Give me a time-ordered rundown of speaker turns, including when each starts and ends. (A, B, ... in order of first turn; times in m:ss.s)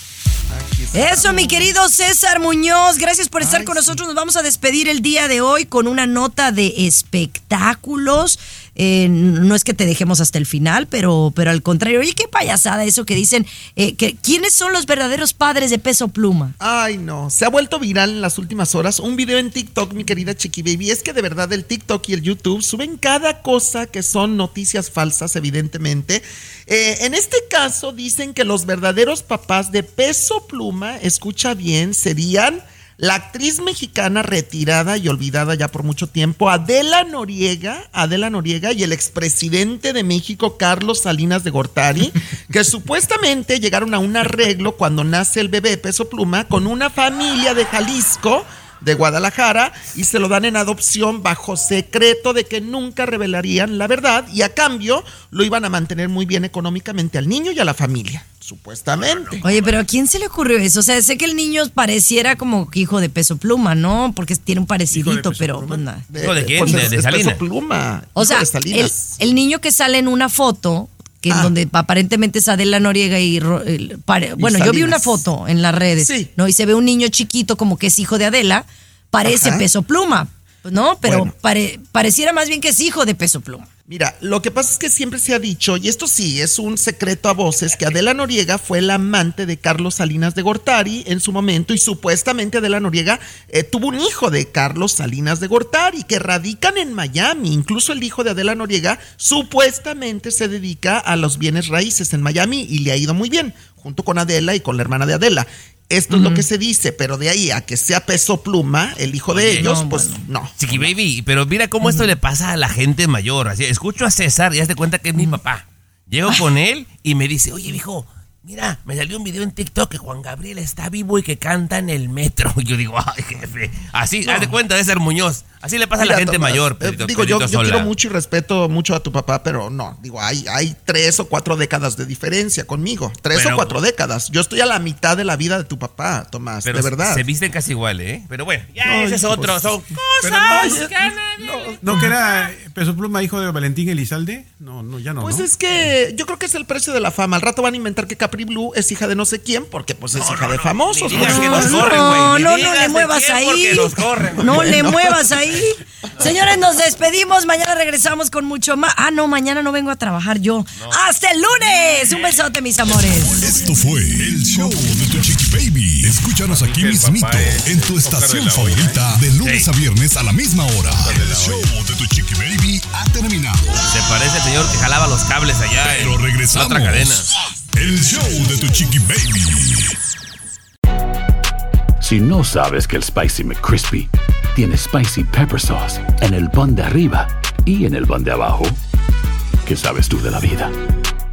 0:00.5-0:01.7 A
0:00.9-0:16.6 B
0:03.4-0:04.0 A
0:16.6-0:59.4 A
0:59.0-0:59.8 C
0:59.4-1:06.1 B
1:05.0-1:05.6 D
1:05.7-1:09.2 A
1:06.2-1:07.4 C
1:08.2-1:23.7 B
1:11.3-1:11.6 A
1:14.4-1:15.2 A
1:16.0-1:16.3 A
1:19.2-1:19.7 A
1:21.0-1:21.3 A
1:23.9-1:50.9 A
1:46.1-1:46.5 B
1:49.3-1:49.7 C
1:49.6-1:50.2 B
1:50.6-2:07.9 C
1:51.8-1:52.1 B
2:04.2-2:04.6 A
2:06.0-2:17.2 A
2:13.3-2:13.8 C
2:16.6-2:22.1 C
2:18.8-2:22.2 A
2:20.2-2:21.0 D
2:21.8-2:25.5 D
2:25.2-2:32.3 A
2:30.1-2:34.9 C
2:31.1-2:31.7 D
2:31.2-2:43.4 B
2:34.4-2:35.3 A
2:42.0-2:42.4 C
2:43.0-2:43.7 C
2:43.4-2:53.9 E
2:46.4-2:49.1 D
2:49.4-2:49.7 C
2:50.9-2:51.7 D
2:53.9-2:57.3 C
2:55.8-3:00.0 E
3:02.0-3:08.8 F
3:09.6-3:10.7 F